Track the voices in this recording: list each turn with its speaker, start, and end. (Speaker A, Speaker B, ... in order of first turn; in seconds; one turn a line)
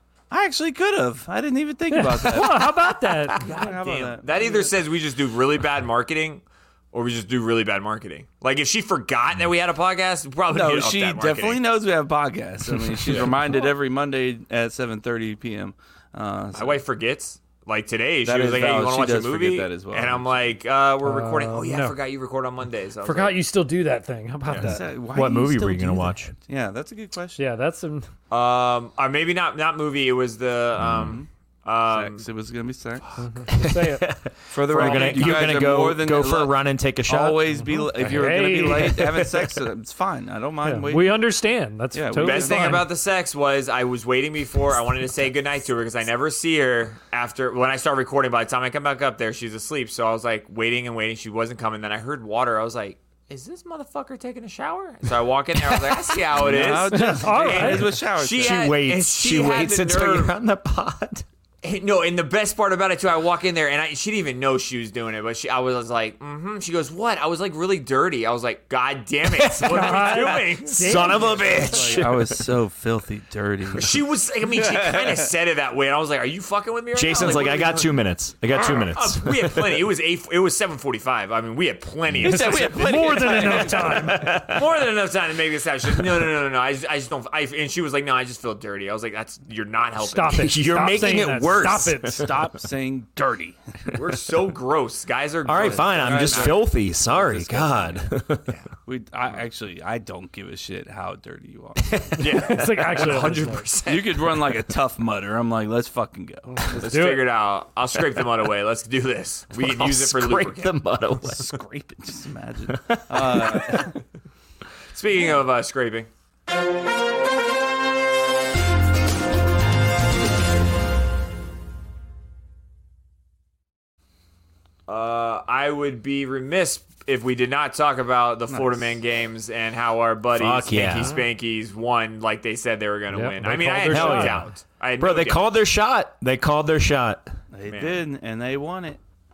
Speaker A: 0.3-4.7
Speaker B: 1.9-3.4
Speaker C: 3.4-11.6
Speaker A: 10.5-16.8
Speaker C: 16.5-23.4
Speaker A: 18.2-20.4
Speaker B: 21.0-22.0
Speaker B: 23.0-24.9
Speaker A: 24.6-27.4
Speaker D: 25.1-26.3
Speaker B: 27.4-28.1
Speaker C: 28.3-32.2
Speaker D: 30.8-31.1
Speaker A: 30.9-31.3
Speaker A: 31.9-33.1
Speaker B: 33.2-34.1
Speaker D: 33.6-37.4
Speaker A: 34.5-36.5
Speaker C: 34.8-35.4
Speaker A: 37.1-41.1
Speaker B: 37.6-39.5
Speaker B: 40.6-42.9
Speaker A: 41.9-42.9
Speaker C: 42.2-60.3
Speaker A: 56.4-58.7
Speaker B: 56.9-58.0
Speaker D: 58.3-61.2
Speaker C: 61.6-71.5
Speaker D: 69.2-72.3
Speaker B: 69.6-72.0
Speaker A: 71.9-75.3
Speaker C: 73.7-78.0
Speaker D: 76.9-79.8
Speaker C: 78.5-90.5
Speaker D: 82.1-84.7
Speaker A: 82.2-84.0
Speaker B: 82.2-84.4
Speaker B: 90.0-92.3
Speaker D: 90.3-92.5
Speaker A: 92.1-93.6
Speaker C: 93.9-96.6
Speaker D: 95.5-98.5
Speaker A: 95.6-98.0
Speaker A: 98.9-102.0
Speaker D: 101.9-102.2
Speaker B: 102.2-103.7
Speaker C: 102.2-104.2
Speaker A: 103.9-106.8
Speaker B: 106.5-107.3
Speaker C: 106.8-110.8
Speaker D: 109.5-111.6
Speaker A: 111.2-114.0
Speaker D: 113.1-113.8
Speaker C: 114.9-116.1
Speaker C: 124.9-135.4
Speaker A: 128.5-129.0
Speaker D: 130.3-131.2
Speaker B: 133.1-134.5
Speaker D: 133.9-137.3
Speaker A: 137.5-139.0
Speaker C: 137.7-138.0